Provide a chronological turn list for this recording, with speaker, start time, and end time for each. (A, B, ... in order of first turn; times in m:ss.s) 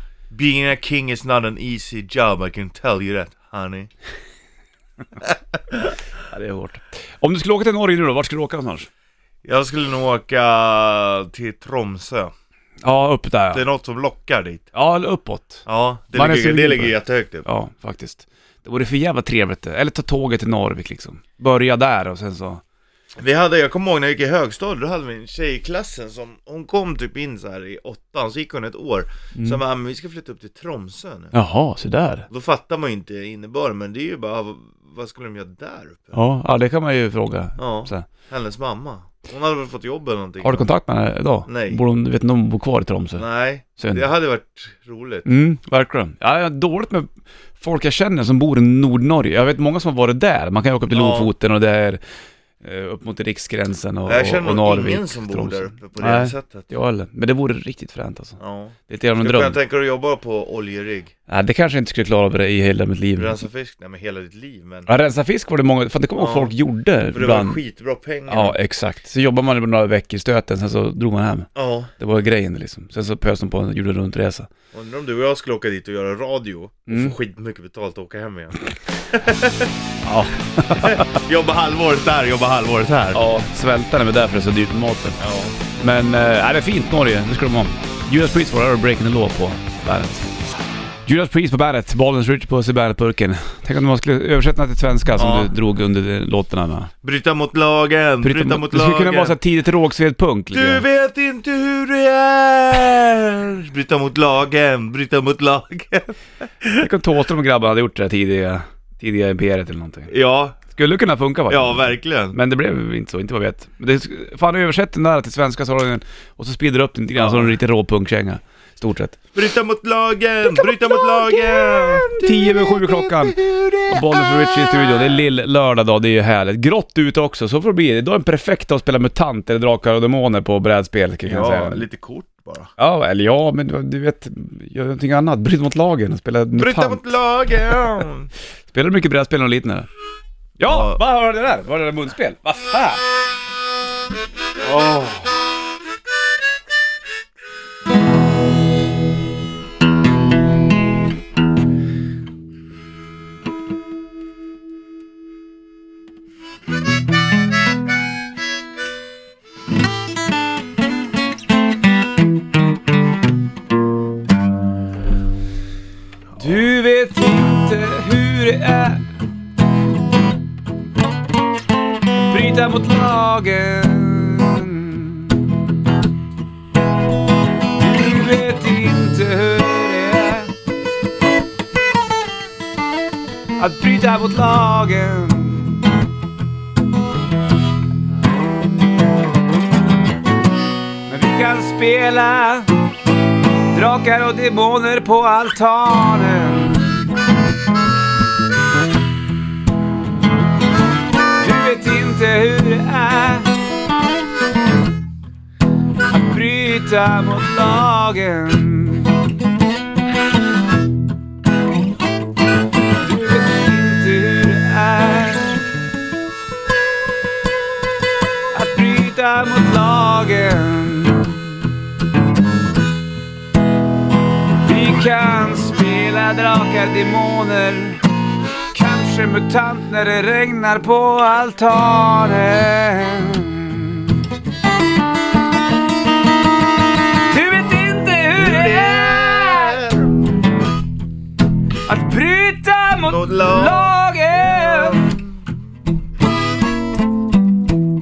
0:00.3-0:03.9 A
0:05.2-0:05.8 A
0:06.3-0:08.9 B
0:09.4-0:12.3 A
0:12.8-0:13.7 B
0:13.5-0:14.7 A
0:14.7-0:22.6 B
0:15.6-0:17.4 A
0:23.2-0:31.3 A
0:29.3-0:29.6 B
0:31.3-0:32.3 B
0:32.3-0:36.2 A
0:36.1-0:38.0 B
0:37.6-0:40.7 A
0:40.4-0:44.1 B
0:41.5-0:41.8 A
0:43.2-0:45.3 A
0:45.3-0:52.0 B
0:50.9-0:51.3 A
0:52.6-0:59.6 B
0:54.0-0:56.7 A
0:58.4-1:01.1 A
1:01.3-1:03.4 B
1:03.2-1:04.9 A
1:04.9-1:07.6 B
1:06.2-1:06.5 A
1:07.1-1:08.6 A
1:08.3-1:14.5 B
1:11.6-1:11.9 A
1:14.7-1:19.7 A
1:16.9-1:17.1 B
1:20.0-1:21.1 B
1:20.7-1:23.2 A
1:23.1-1:25.2 B
1:25.2-1:25.6 A
1:25.8-1:30.3 B
1:31.0-1:36.9 B
1:35.2-1:35.5 A
1:37.0-1:39.4 A
1:38.2-1:40.8 B
1:40.5-1:46.8 A
1:46.8-1:50.1 B
1:50.1-1:50.6 A
1:50.6-1:59.2 B
1:51.5-1:52.4 A
1:57.2-1:57.6 A
1:59.3-2:05.2 A
2:02.2-2:03.4 B
2:03.9-2:11.8 B
2:11.2-2:12.7 A
2:12.8-2:17.2 B
2:16.6-2:18.3 A
2:18.7-2:19.9 B
2:20.6-2:21.0 A
2:20.6-2:23.0 B
2:24.6-2:25.2 B
2:46.4-2:49.0 B
2:52.3-2:55.4 B
2:57.8-3:00.5 B
3:03.6-3:05.8 B
3:11.1-3:12.8 B
3:13.7-3:17.1 B
3:21.4-3:23.5 B
3:26.1-3:29.2 B
3:33.0-3:35.6 B
3:38.5-3:41.6 B
3:44.6-3:48.0 B
3:48.7-3:54.2 B
3:57.2-3:59.8 B
3:58.3-4:00.1 A
4:01.9-4:05.2 B
4:03.0-4:05.2 A